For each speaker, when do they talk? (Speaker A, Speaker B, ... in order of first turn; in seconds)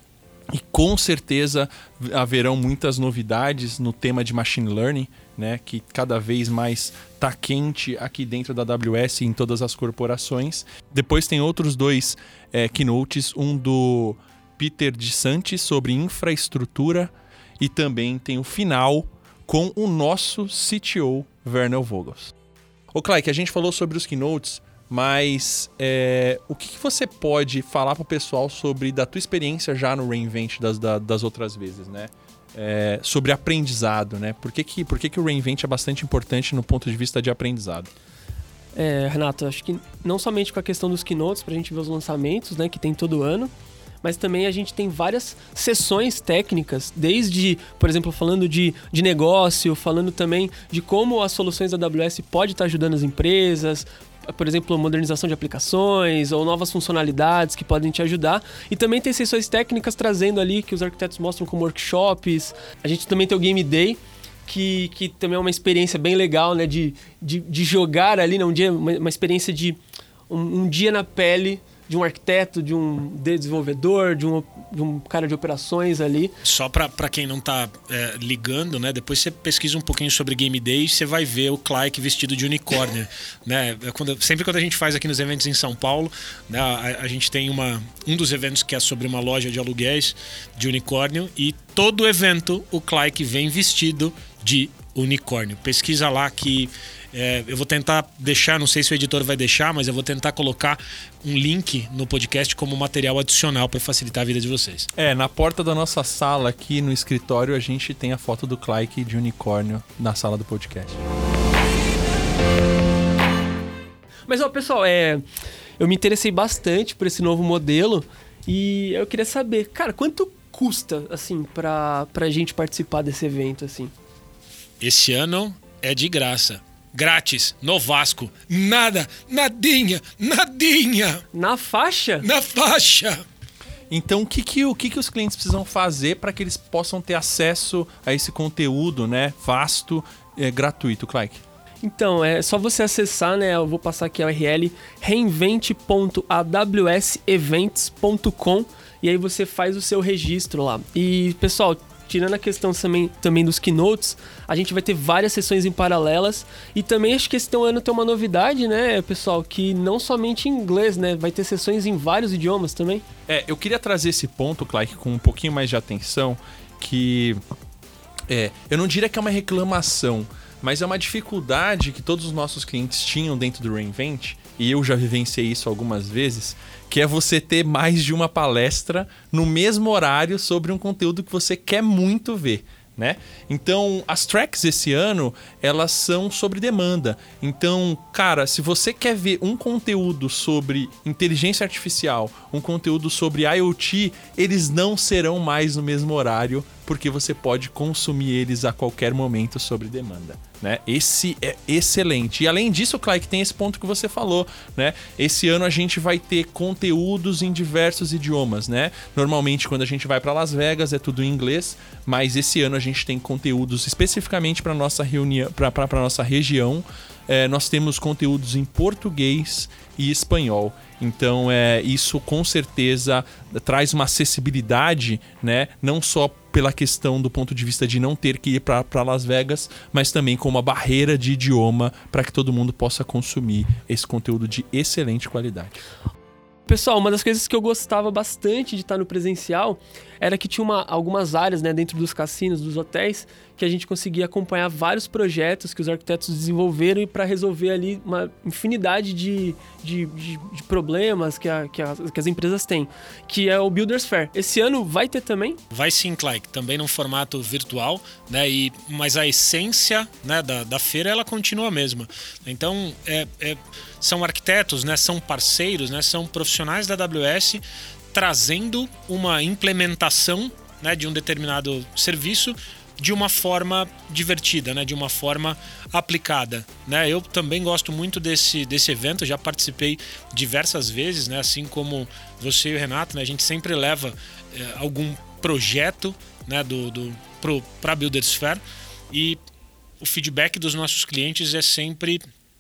Speaker A: 0.5-22.3, 22.9-37.9, 104.9-111.0, 133.9-141.4, 163.3-167.4, 168.3-235.8
Speaker B: 38.7-76.3, 114.3-115.2, 115.8-123.9, 131.3-132.3, 141.8-163.0, 236.7-255.6
Speaker C: 76.4-104.9, 124.8-131.2, 132.2-133.2, 255.7-289.4, 290.0-292.2